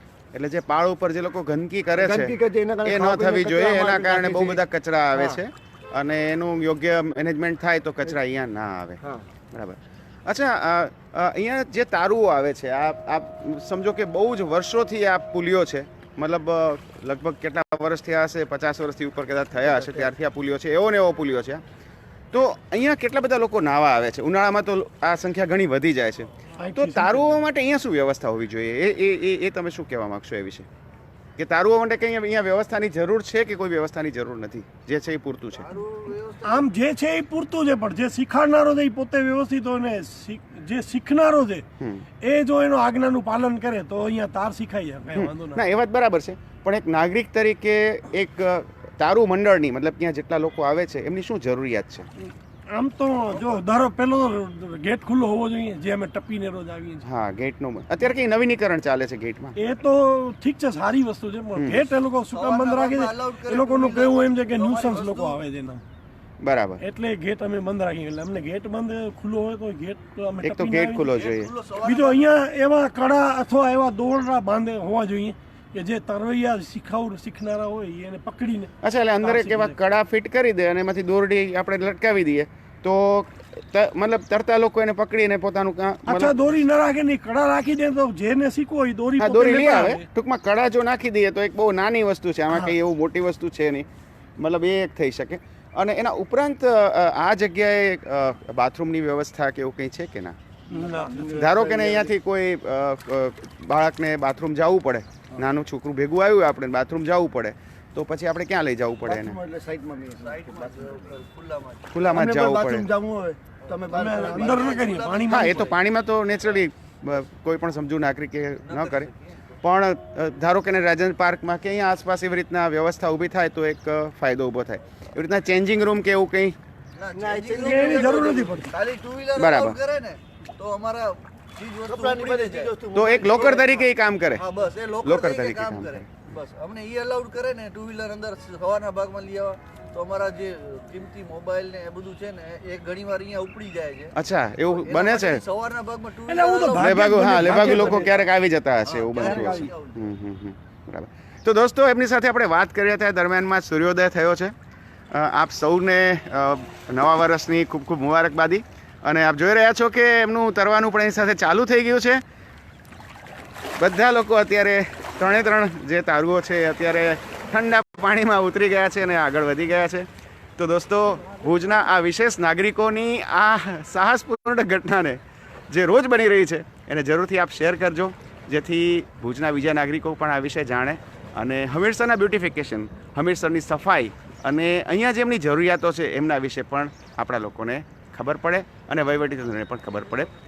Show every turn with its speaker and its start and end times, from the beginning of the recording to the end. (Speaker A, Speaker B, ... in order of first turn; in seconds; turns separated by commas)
Speaker A: 0.3-9.0, Speaker B: 1.9-4.6, Speaker B: 5.1-5.4, Speaker A: 9.5-21.6, Speaker B: 19.6-20.1, Speaker A: 22.3-30.7, Speaker C: 26.6-27.4, Speaker A: 31.4-35.8, Speaker D: 35.5-36.7, Speaker C: 36.4-41.6, Speaker A: 41.8-42.0, Speaker C: 42.2-45.6, Speaker A: 45.1-52.1, Speaker C: 52.7-57.0, Speaker D: 53.3-53.6, Speaker A: 57.0-59.5, Speaker C: 59.6-65.8, Speaker A: 61.5-61.9, Speaker D: 62.3-65.4, Speaker A: 66.4-66.8, Speaker C: 66.8-71.1, Speaker A: 70.4-71.5, Speaker D: 71.1-72.3, Speaker C: 71.8-78.7, Speaker A: 78.8-86.4, Speaker C: 79.2-79.8, Speaker C: 86.0-90.1, Speaker A: 89.2-93.9, Speaker A: 94.4-100.3, Speaker C: 100.7-101.3, Speaker B: 100.7-102.1, Speaker A: 101.3-109.3, Speaker B: 109.0-111.2, Speaker D: 110.2-111.9, Speaker A: 111.9-112.9, Speaker B: 112.1-114.8, Speaker D: 113.6-115.8, Speaker C: 113.9-115.6, Speaker A: 115.3-119.1, Speaker D: 118.6-119.6, Speaker A: 119.6-126.5, Speaker D: 127.0-132.7, Speaker B: 127.1-128.7, Speaker C: 127.6-128.7, Speaker A: 129.3-129.8, Speaker B: 131.8-133.8, Speaker A: 132.9-134.4, Speaker D: 133.2-133.7, Speaker D: 134.3-148.3, Speaker A: 135.0-136.3, Speaker A: 144.1-145.4, Speaker C: 146.3-148.1, Speaker A: 146.8-154.5, Speaker D: 148.8-150.0, Speaker C: 149.1-149.7, Speaker A: 155.1-162.2, Speaker A: 163.8-190.3, Speaker C: 171.1-171.9